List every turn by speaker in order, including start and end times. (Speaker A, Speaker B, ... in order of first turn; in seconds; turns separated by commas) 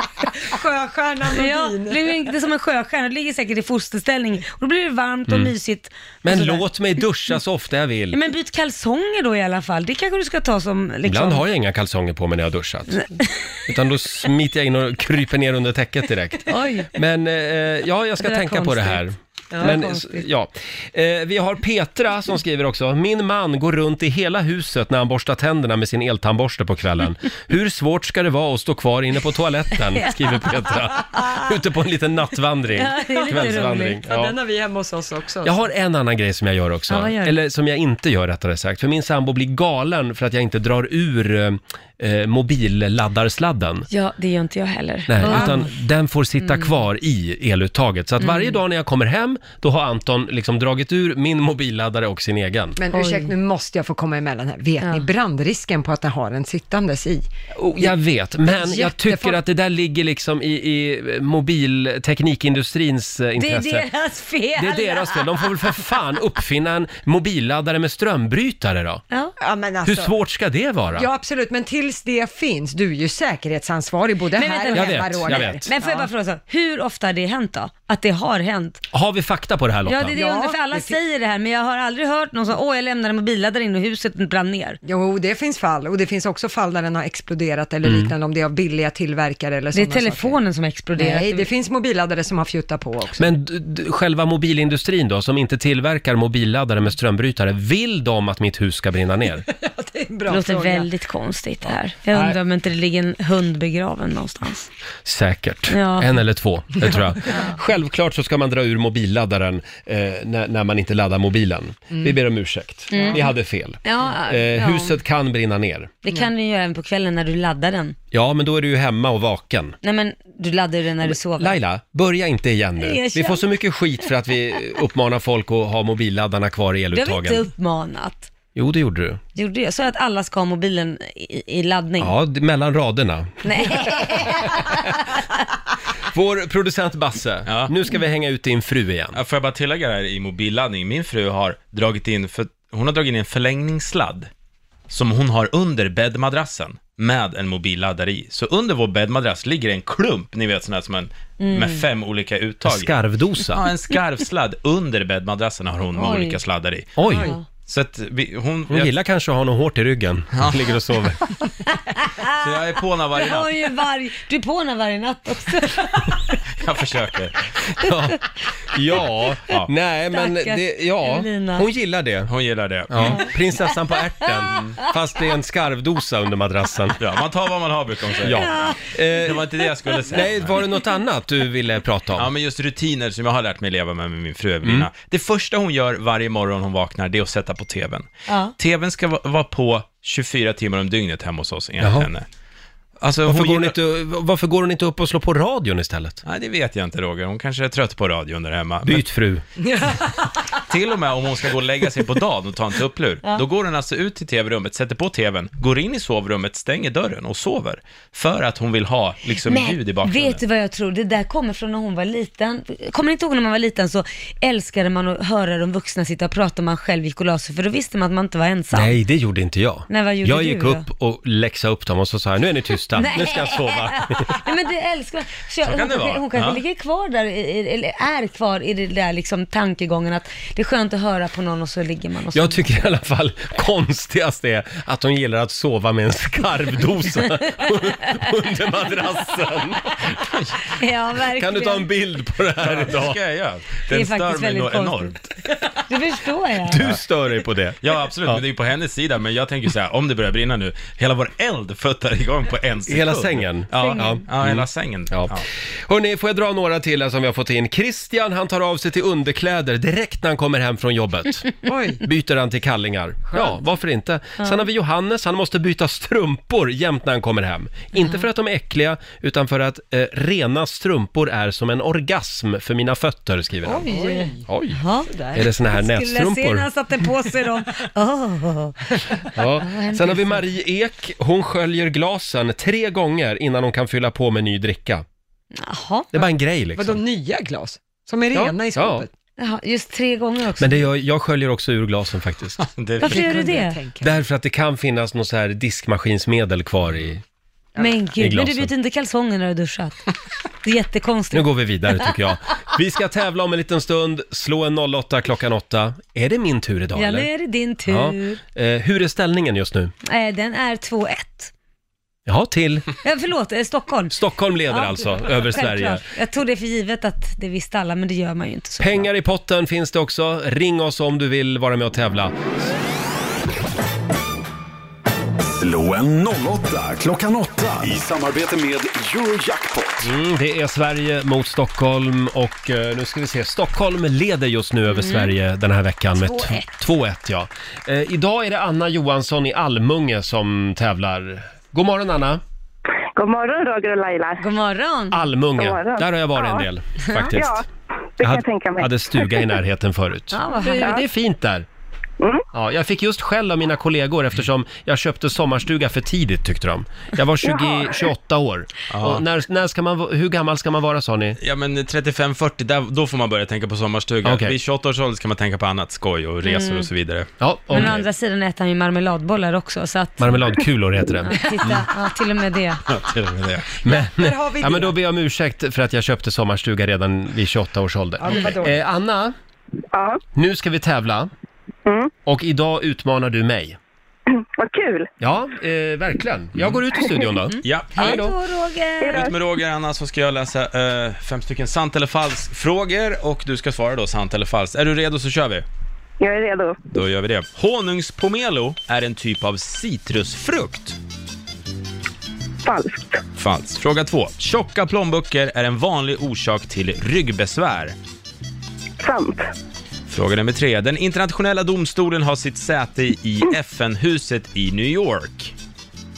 Speaker A: 0.5-2.1, Speaker B: 1.3-6.6, Speaker C: 5.3-5.5, Speaker C: 6.2-8.2, Speaker B: 8.1-11.4, Speaker C: 11.1-13.1, Speaker B: 13.0-13.6, Speaker C: 13.7-34.3, Speaker B: 16.5-16.9, Speaker B: 18.2-20.2, Speaker B: 30.0-30.4, Speaker B: 32.8-34.0, Speaker A: 33.1-35.7, Speaker C: 35.4-43.9, Speaker B: 36.9-37.4, Speaker B: 43.9-45.7, Speaker C: 45.1-52.8, Speaker A: 45.3-45.6, Speaker B: 46.4-46.8, Speaker B: 48.2-48.6, Speaker A: 52.8-59.4, Speaker B: 52.9-53.3, Speaker B: 54.8-55.1, Speaker C: 57.5-63.9, Speaker B: 63.4-66.0, Speaker C: 64.6-69.0, Speaker A: 69.4-70.1, Speaker C: 69.8-71.1, Speaker A: 70.9-76.1, Speaker B: 74.3-78.8, Speaker C: 74.7-75.7, Speaker C: 78.9-80.2, Speaker B: 79.9-84.8, Speaker A: 80.1-81.0, Speaker A: 84.8-90.4, Speaker C: 87.8-88.1, Speaker B: 89.7-91.5, Speaker A: 91.0-93.3, Speaker C: 93.2-99.5, Speaker A: 99.5-100.9, Speaker B: 100.3-104.7, Speaker C: 102.1-102.4, Speaker C: 105.0-115.9, Speaker B: 105.7-106.1, Speaker B: 107.3-107.6, Speaker B: 112.9-113.3, Speaker A: 113.0-113.2, Speaker B: 113.8-115.0, Speaker B: 116.0-118.0, Speaker C: 118.1-119.8, Speaker B: 119.8-121.6, Speaker C: 121.0-127.5, Speaker B: 122.8-123.4, Speaker B: 126.9-128.3, Speaker C: 128.6-129.2, Speaker B: 129.4-132.1, Speaker C: 132.0-135.0, Speaker B: 133.4-135.4, Speaker C: 136.0-139.2, Speaker D: 137.5-137.7, Speaker D: 139.1-144.3, Speaker D: 144.9-152.9, Speaker B: 151.4-151.8, Speaker C: 152.6-153.7, Speaker D: 153.6-156.9, Speaker B: 155.9-156.4, Speaker C: 157.0-157.3, Speaker B: 157.2-157.4, Speaker D: 157.7-159.0, Speaker C: 158.7-161.2, Speaker D: 160.3-160.8, Speaker B: 161.6-162.6, Speaker D: 162.3-163.7, Speaker B: 163.2-166.4, Speaker D: 166.6-167.5, Speaker C: 167.8-168.2, Speaker B: 167.9-168.1, Speaker C: 168.7-172.3, Speaker B: 170.1-171.7, Speaker D: 172.3-173.4, Speaker C: 172.9-177.0, Speaker B: 173.1-174.8, Speaker D: 174.5-174.8, Speaker D: 177.0-180.6, Speaker C: 178.2-179.4, Speaker B: 178.2-179.5, Speaker C: 180.1-182.3, Speaker D: 182.1-192.3, Speaker C: 184.6-184.9, Speaker B: 188.3-188.6, Speaker C: 191.8-192.1, Speaker D: 193.0-193.8, Speaker C: 193.2-196.2, Speaker D: 196.2-199.1, Speaker C: 198.8-199.4, Speaker A: 199.6-200.4, Speaker D: 200.6-210.4, Speaker B: 209.5-219.0, Speaker C: 218.7-224.4, Speaker B: 219.9-220.8, Speaker B: 222.9-232.6, Speaker D: 225.6-226.6, Speaker C: 232.3-240.7, Speaker B: 240.8-241.9, Speaker C: 241.3-243.2, Speaker D: 242.6-245.4, Speaker B: 243.9-246.8, Speaker C: 246.6-248.4, Speaker D: 247.8-255.5, Speaker C: 252.9-273.9, Speaker B: 253.7-254.2, Speaker A: 261.6-262.0, Speaker A: 273.7-274.5, Speaker B: 273.9-275.1, Speaker C: 274.5-274.8, Speaker A: 275.0-275.5, Speaker C: 275.3-276.7, Speaker B: 275.6-278.9, Speaker C: 279.3-285.1, Speaker B: 279.6-280.4, Speaker B: 285.6-286.2, Speaker C: 286.1-287.0, Speaker A: 286.8-289.1, Speaker C: 288.3-289.1, Speaker B: 289.4-290.9, Speaker C: 290.6-292.6, Speaker D: 292.6-293.3, Speaker B: 293.0-293.8, Speaker A: 293.0-294.1, Speaker C: 294.0-297.2, Speaker A: 297.8-298.0, Speaker B: 297.8-300.0, Speaker C: 298.2-298.7, Speaker B: 300.6-301.5, Speaker C: 301.3-307.3, Speaker B: 306.9-308.4, Speaker C: 307.9-309.9, Speaker B: 310.1-311.5, Speaker C: 312.3-312.9, Speaker B: 313.0-314.2, Speaker C: 314.1-316.1, Speaker B: 314.7-319.1, Speaker C: 318.8-322.4, Speaker E: 325.6-330.1, Speaker C: 330.0-342.4, Speaker B: 334.9-335.3, Speaker B: 336.2-336.6, Speaker F: 343.2-344.4, Speaker B: 344.4-345.2, Speaker C: 345.1-347.6, Speaker F: 345.6-346.7, Speaker B: 347.0-347.3, Speaker F: 347.3-347.6, Speaker F: 348.2-349.3, Speaker C: 348.2-351.7, Speaker B: 350.3-351.0, Speaker C: 352.5-361.4, Speaker F: 357.4-357.9, Speaker D: 358.9-359.2, Speaker D: 361.4-368.1, Speaker C: 364.2-364.6, Speaker B: 366.4-366.9, Speaker C: 367.4-367.9, Speaker B: 367.7-370.3, Speaker C: 370.2-371.9, Speaker B: 371.2-372.8, Speaker D: 372.9-373.7, Speaker C: 373.8-379.3, Speaker A: 373.9-375.0, Speaker A: 378.2-378.8, Speaker F: 379.9-380.2, Speaker C: 380.4-381.3, Speaker F: 381.9-382.1, Speaker C: 382.3-383.8, Speaker F: 384.3-385.1, Speaker C: 385.2-388.4, Speaker D: 387.6-388.2, Speaker B: 387.9-389.2, Speaker F: 389.0-389.4, Speaker D: 389.1-395.6, Speaker F: 396.2-396.8, Speaker D: 396.9-401.0, Speaker F: 402.6-403.2, Speaker D: 403.4-407.9, Speaker F: 409.0-409.5, Speaker D: 410.1-415.5